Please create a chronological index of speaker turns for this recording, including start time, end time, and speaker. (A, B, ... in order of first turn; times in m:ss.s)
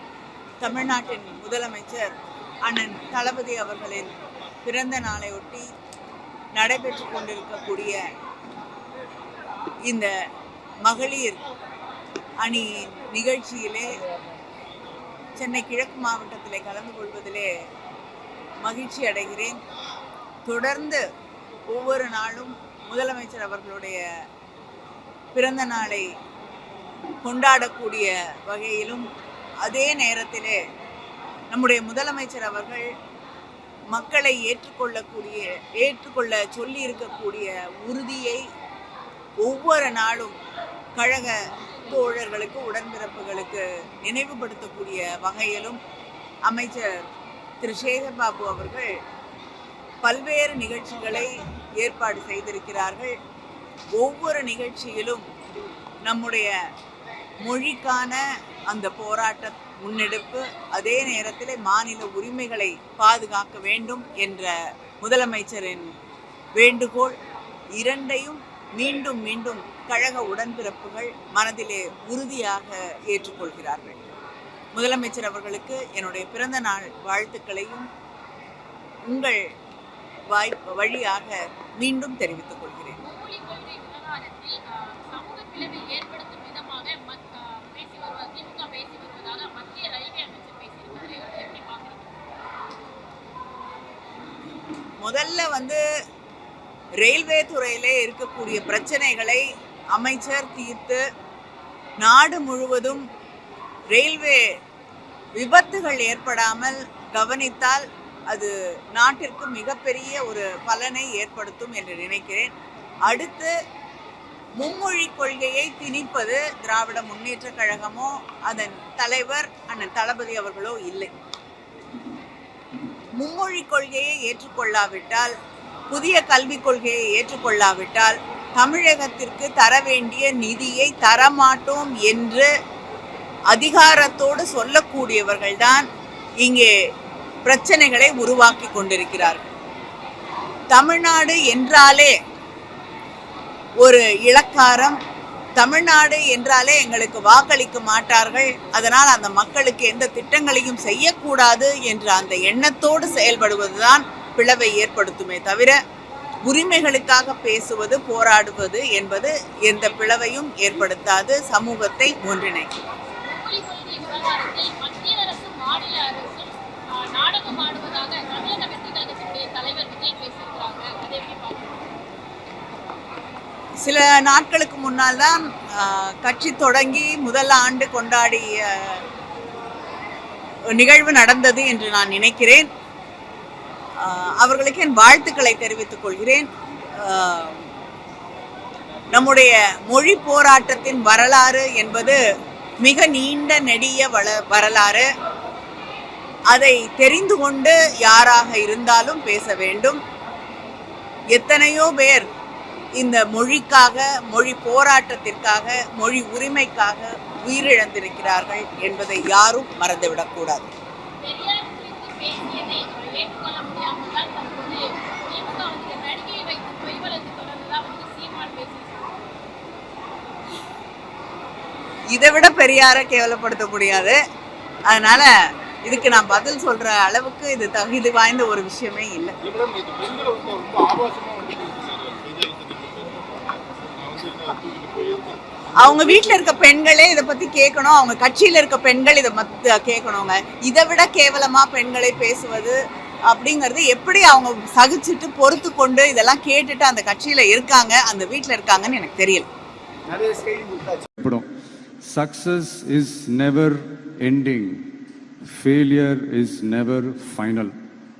0:00.6-0:02.1 A
0:02.6-0:04.1 A
0:04.6-0:05.7 A
0:06.5-0:08.0 A
0:09.8-0:10.1 A
0:10.8-0:11.4 A
0:12.4-0:14.0 A
0:15.4-0:17.5 A
0:18.6-0:19.6 A
0:20.4-0:21.0 A
0:21.7-0:24.0 A
0:25.3-0:26.1 A
0:27.2-0:29.0 A
0:29.6-0:30.6 A
0:31.5-0:32.8 A
0:33.9-0:38.4 A
0:39.4-0:40.4 A
0:41.0-0:45.8 A
0:46.4-0:47.0 A
0:47.6-0:48.9 A
0:50.0-0:53.1 A
0:53.9-0:55.3 A
0:56.0-0:56.5 A
0:57.4-1:05.9 A
1:06.6-1:07.2 A
1:07.8-1:14.0 A
1:14.7-1:17.9 A
1:19.1-1:19.4 A
1:20.3-1:23.0 A
1:23.0-1:32.2 B
1:35.0-1:35.8 A
1:37.0-1:41.0 A
1:42.0-1:43.0 A
1:43.9-1:44.4 A
1:45.4-1:52.5 A
1:53.0-1:53.5 A
1:54.6-2:01.1 A
2:03.2-2:05.3 A
2:05.9-2:12.5 A
2:13.5-2:15.8 A
2:16.4-2:16.7 A
2:17.4-2:19.5 A
2:20.7-2:22.1 A
2:23.8-2:25.0 A
2:25.6-2:35.8 A
2:36.4-2:42.7 A
2:43.2-2:51.8 B
2:53.8-2:59.0 A
3:00.7-3:02.7 A
3:04.0-3:06.5 A
3:07.0-3:07.7 A
3:09.1-3:12.2 A
3:12.8-3:15.1 A
3:16.5-3:20.0 A
3:21.3-3:22.2 A
3:23.0-3:30.7 A
3:31.2-3:39.2 B
3:42.1-3:44.2 A
3:44.9-3:45.3 A
3:45.8-3:49.3 A
3:49.4-3:56.2 C
3:55.8-4:02.8 A
4:03.3-4:09.5 A
4:10.1-4:11.0 C
4:11.2-4:11.4 D
4:12.0-4:14.8 D
4:15.4-4:17.7 D